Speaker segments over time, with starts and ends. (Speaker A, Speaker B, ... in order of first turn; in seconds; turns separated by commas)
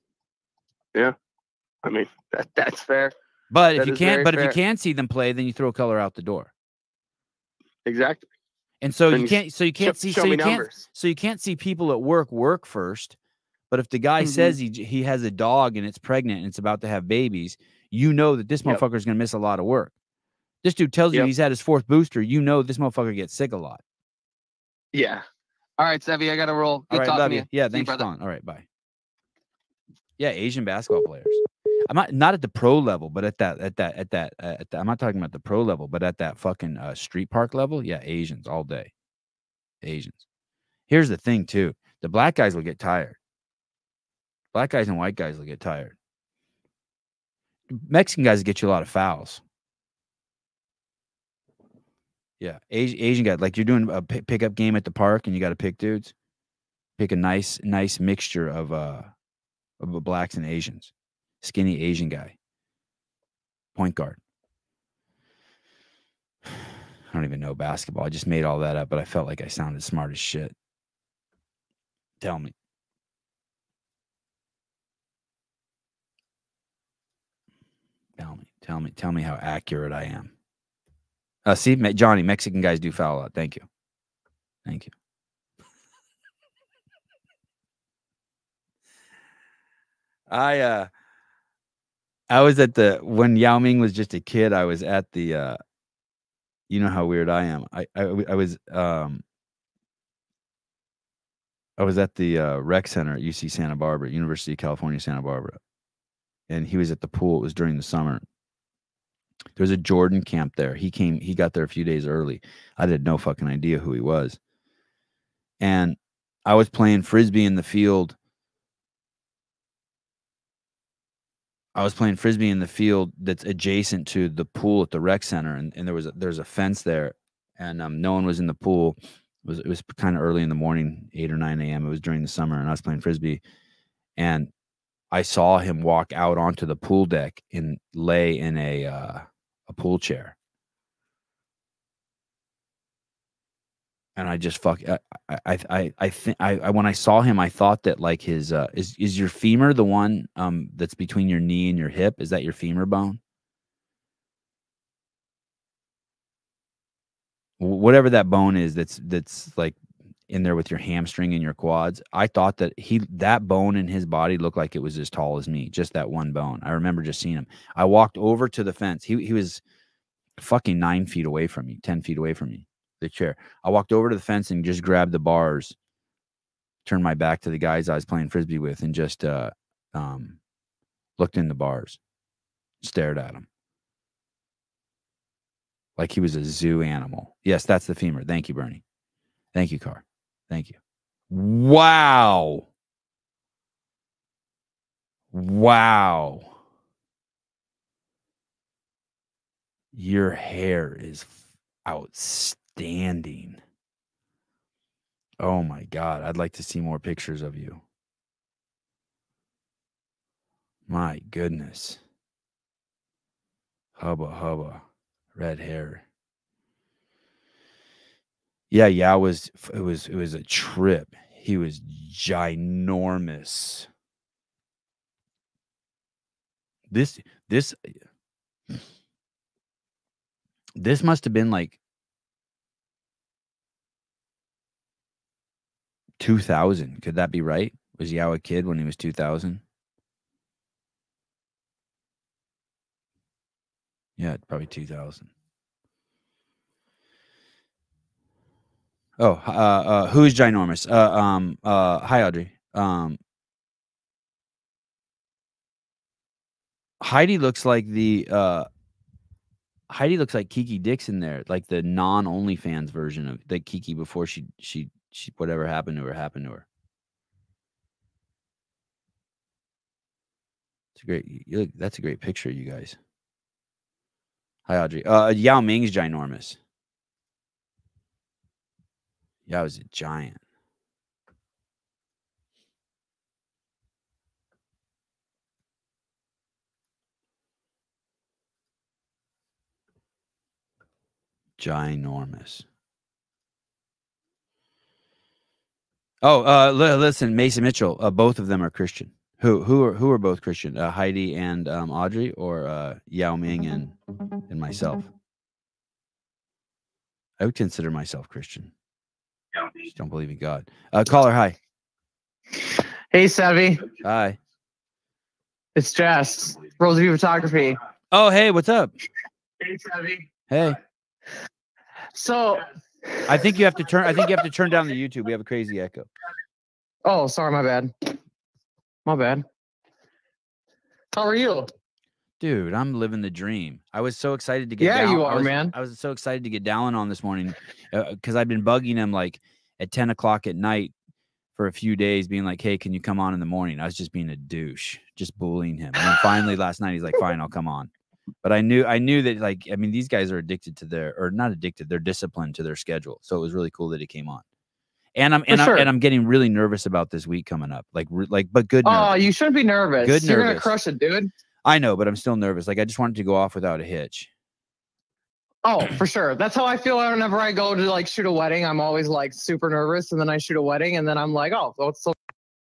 Speaker A: 1.8-3.1, Speaker B: 3.5-6.5, Speaker A: 3.8-4.6, Speaker A: 7.9-8.3, Speaker B: 8.8-13.2, Speaker A: 9.1-10.8, Speaker B: 13.7-19.9, Speaker A: 14.2-14.6, Speaker B: 20.6-23.8, Speaker A: 24.9-25.2, Speaker A: 25.8-28.0, Speaker B: 26.9-28.6, Speaker C: 26.9-27.2, Speaker B: 30.2-38.9, Speaker B: 39.8-40.3, Speaker B: 40.9-43.2, Speaker B: 44.5-46.0, Speaker B: 47.7-49.4, Speaker B: 52.4-56.1, Speaker B: 57.0-59.1, Speaker B: 59.8-62.4, Speaker B: 63.8-64.2, Speaker B: 67.1-70.5, Speaker B: 72.2-72.5, Speaker B: 78.2-80.3, Speaker B: 81.5-83.7, Speaker B: 84.7-84.9, Speaker B: 90.3-90.9, Speaker B: 92.3-95.6, Speaker B: 96.7-99.2, Speaker B: 101.8-105.6, Speaker B: 106.5-108.2, Speaker B: 109.6-114.4, Speaker B: 115.6-118.2, Speaker B: 121.8-133.4, Speaker B: 134.2-134.5, Speaker B: 135.1-140.3, Speaker B: 144.2-153.2, Speaker B: 157.6-159.8, Speaker B: 160.3-169.6, Speaker B: 170.4-175.8, Speaker B: 176.8-180.4, Speaker B: 181.2-182.0, Speaker B: 182.8-183.5, Speaker B: 186.0-188.8, Speaker B: 189.5-190.8, Speaker B: 191.3-192.7, Speaker B: 195.3-196.6, Speaker B: 199.9-203.6, Speaker B: 205.4-207.8, Speaker B: 210.9-212.0, Speaker B: 214.0-214.8, Speaker B: 215.3-216.0, Speaker B: 218.7-223.9, Speaker B: 226.9-228.0, Speaker B: 230.8-231.8, Speaker B: 236.2-239.6, Speaker B: 244.2-245.3, Speaker B: 249.2-253.2, Speaker B: 257.0-258.7, Speaker B: 259.9-266.7, Speaker B: 270.9-273.0, Speaker B: 274.7-276.6, Speaker B: 279.5-280.4, Speaker B: 291.6-292.6, Speaker B: 296.2-303.9, Speaker B: 304.5-305.1, Speaker B: 307.4-308.7, Speaker B: 309.9-311.6, Speaker C: 313.1-313.8, Speaker B: 314.0-314.4, Speaker C: 315.8-317.8, Speaker B: 318.1-318.9, Speaker C: 319.6-320.3, Speaker B: 320.5-320.8, Speaker C: 322.1-323.6, Speaker B: 323.3-326.1, Speaker C: 327.1-327.9, Speaker C: 329.1-329.4, Speaker C: 331.1-331.7, Speaker B: 332.4-340.9, Speaker C: 334.8-335.7, Speaker B: 341.6-347.9, Speaker B: 348.4-354.4, Speaker B: 355.1-359.2, Speaker C: 355.5-355.9, Speaker C: 358.8-361.3, Speaker B: 360.0-360.7, Speaker B: 361.6-364.3, Speaker C: 365.6-372.1